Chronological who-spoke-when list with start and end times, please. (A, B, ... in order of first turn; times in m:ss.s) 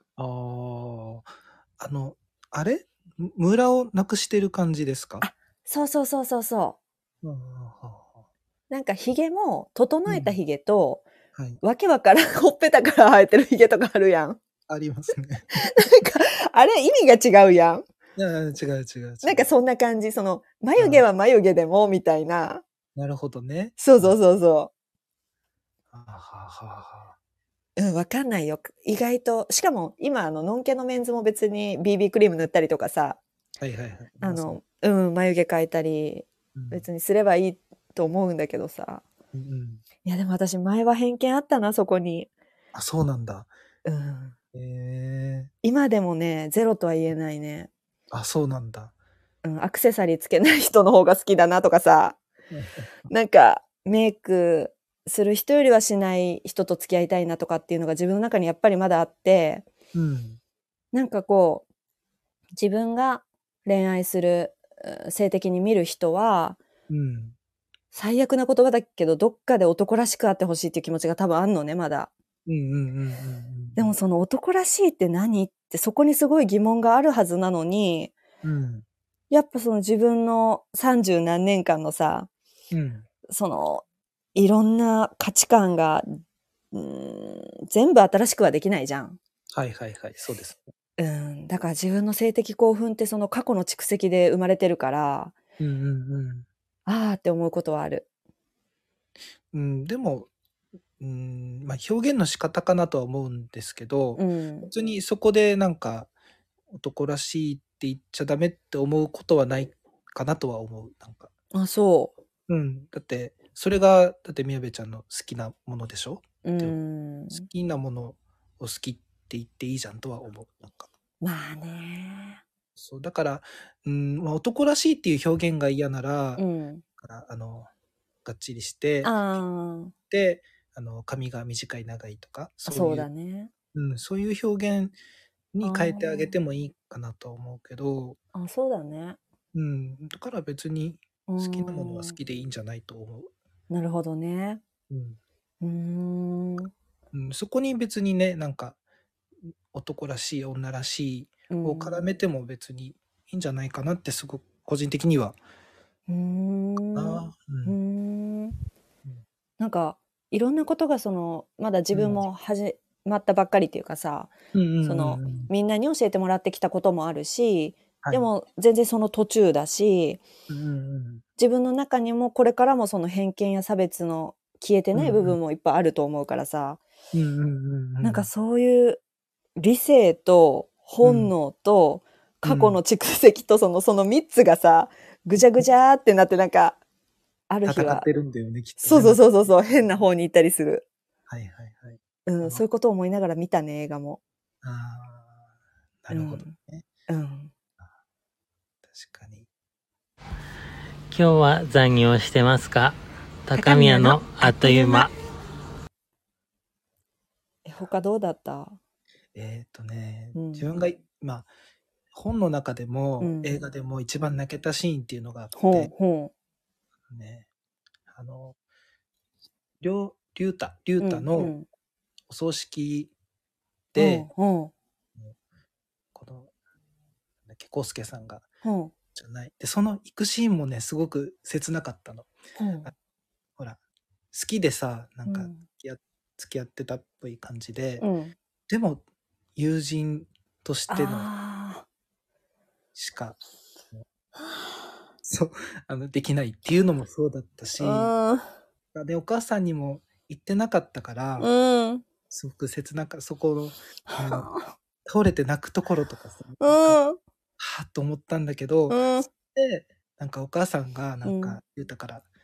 0:00.2-0:05.3 A
0:05.2-0:06.8 B
0:07.2-0:08.2 A
0:08.7-0:11.0 B
0:10.1-0:10.4 A
0:11.6-0:14.4 B
0:14.7-0:15.6 A
0:15.6-0:17.8 B
0:18.2-0:19.5 A
0:19.2-0:22.6 B
0:20.8-0:21.0 A
0:22.9-0:24.2 A
0:23.8-0:24.7 B
0:25.9-0:27.2 A
0:27.8-0:33.2 B
0:33.6-0:34.6 A
0:34.2-0:39.0 B
0:36.5-0:36.8 A
0:39.3-0:39.8 A
0:40.0-0:42.3 B
0:42.7-0:43.5 A
0:43.8-0:44.4 B
0:44.5-0:45.5 A
0:45.6-0:47.7 B
0:48.1-0:48.9 A
0:49.4-0:52.2 B
0:52.5-0:52.8 A
0:53.1-0:59.6 B
0:59.9-1:00.4 A
1:00.9-1:01.6 B
1:02.6-1:06.6 B
1:06.9-1:07.3 A
1:07.9-1:12.1 B
1:12.4-1:13.9 A
1:13.8-1:18.1 B
1:18.4-1:18.8 A
1:19.3-1:22.3 B
1:22.7-1:23.0 A
1:23.3-1:26.2 B
1:26.7-1:29.2 B
1:29.5-1:30.7 A
1:31.0-1:35.4 B
1:35.6-1:36.4 A
1:36.8-1:38.1 B
1:39.5-1:40.3 A
1:41.0-1:46.1 A
1:44.2-1:44.7 B
1:46.7-1:51.3 A
1:51.5-1:52.1 B
1:52.5-1:56.8 A
1:56.4-1:57.4 B
1:57.3-2:00.9 A
2:01.2-2:02.4 B
2:02.8-2:06.4 A
2:06.4-2:06.8 B
2:07.0-2:07.7 A
2:08.2-2:09.2 A
2:09.0-2:09.9 B
2:10.1-2:13.1 A
2:12.7-2:13.5 B
2:13.7-2:15.0 A
2:15.5-2:18.2 A
2:15.6-2:16.3 B
2:18.3-2:19.2 B
2:19.5-2:23.3 A
2:21.3-2:22.2 B
2:23.7-2:24.6 B
2:24.9-2:25.2 A
2:25.6-2:26.7 B
2:27.1-2:28.8 A
2:29.4-2:35.4 A
2:31.5-2:32.0 B
2:36.1-2:38.6 B
2:36.9-2:37.8 A
2:39.6-2:50.2 B
2:41.9-2:42.2 A
2:44.5-2:45.5 A
2:50.5-2:51.2 A
2:51.4-2:56.8 B
2:54.9-2:55.4 A
2:57.1-2:58.3 A
2:58.0-2:59.0 B
2:59.6-3:06.8 B
3:01.0-3:01.3 A
3:02.4-3:02.8 A
3:07.5-3:08.1 B
3:07.6-3:09.8 A
3:08.8-3:10.8 B
3:11.3-3:12.6 A
3:12.3-3:14.2 B
3:14.6-3:15.4 A
3:16.0-3:16.8 A
3:16.1-3:16.6 B
3:17.1-3:17.5 B
3:18.8-3:19.5 A
3:21.1-3:25.1 C
3:23.5-3:25.1 B
3:27.6-3:28.8 B
3:29.3-3:31.5 A
3:30.3-3:30.7 B
3:32.1-3:35.9 A
3:33.2-3:33.6 B
3:35.6-3:36.3 B
3:37.1-3:37.5 A
3:38.1-3:38.6 A
3:39.8-3:41.5 A
3:41.0-3:41.7 B
3:42.3-3:43.1 A
3:43.9-3:44.3 A
3:44.0-3:44.7 B
3:46.1-3:46.5 A
3:47.4-3:48.5 A
3:48.6-3:48.9 B
3:49.1-3:52.3 A
3:52.6-3:52.9 B
3:54.3-3:58.0 A
3:55.2-3:55.6 B
3:58.0-3:58.3 B
3:58.7-3:59.0 A
3:59.6-4:01.3 A
4:00.9-4:01.8 B
4:02.9-4:03.4 A
4:05.2-4:08.1 A
4:07.8-4:08.5 B
4:08.9-4:11.5 A
4:11.4-4:12.0 B
4:12.3-4:14.5 A
4:14.1-4:14.7 B
4:15.0-4:17.0 A
4:16.6-4:17.2 B
4:17.6-4:22.2 A
4:18.9-4:19.3 B
4:21.2-4:21.6 B